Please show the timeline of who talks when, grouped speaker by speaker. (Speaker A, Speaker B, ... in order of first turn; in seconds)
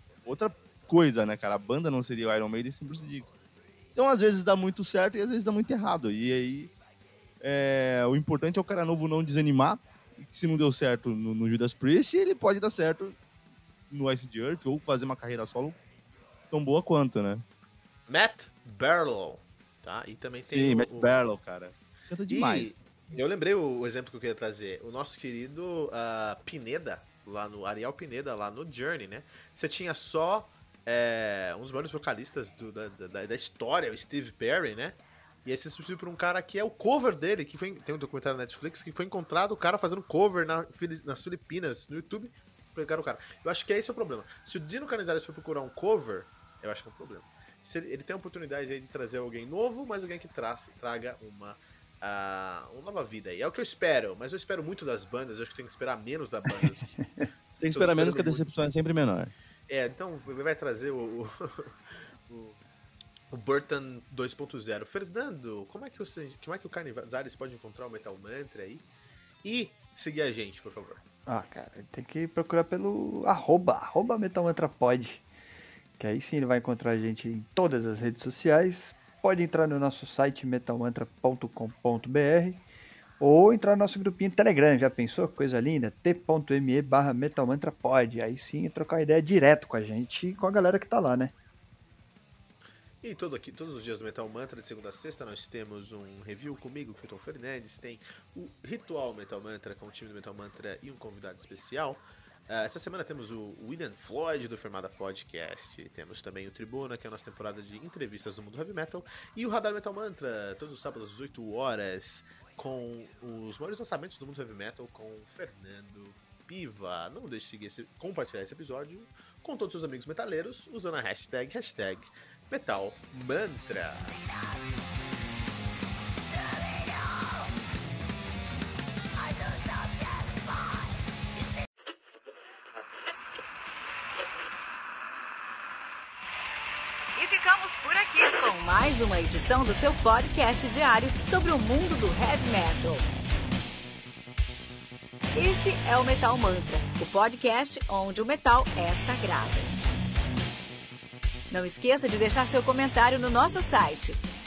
Speaker A: 0.2-3.3, 3.9-6.7, 7.4-13.2, 13.9-15.8, 16.5-17.4, 20.4-22.8, 57.6-59.3
Speaker B: 18.1-21.3, 22.3-57.0, 57.6-58.6, 59.7-62.6, 63.3-68.9, 69.4-71.0, 93.0-124.2
Speaker C: 71.3-75.2, 76.0-82.6, 83.2-91.3
Speaker D: 137.2-143.0, 145.3-149.8, 151.5-154.2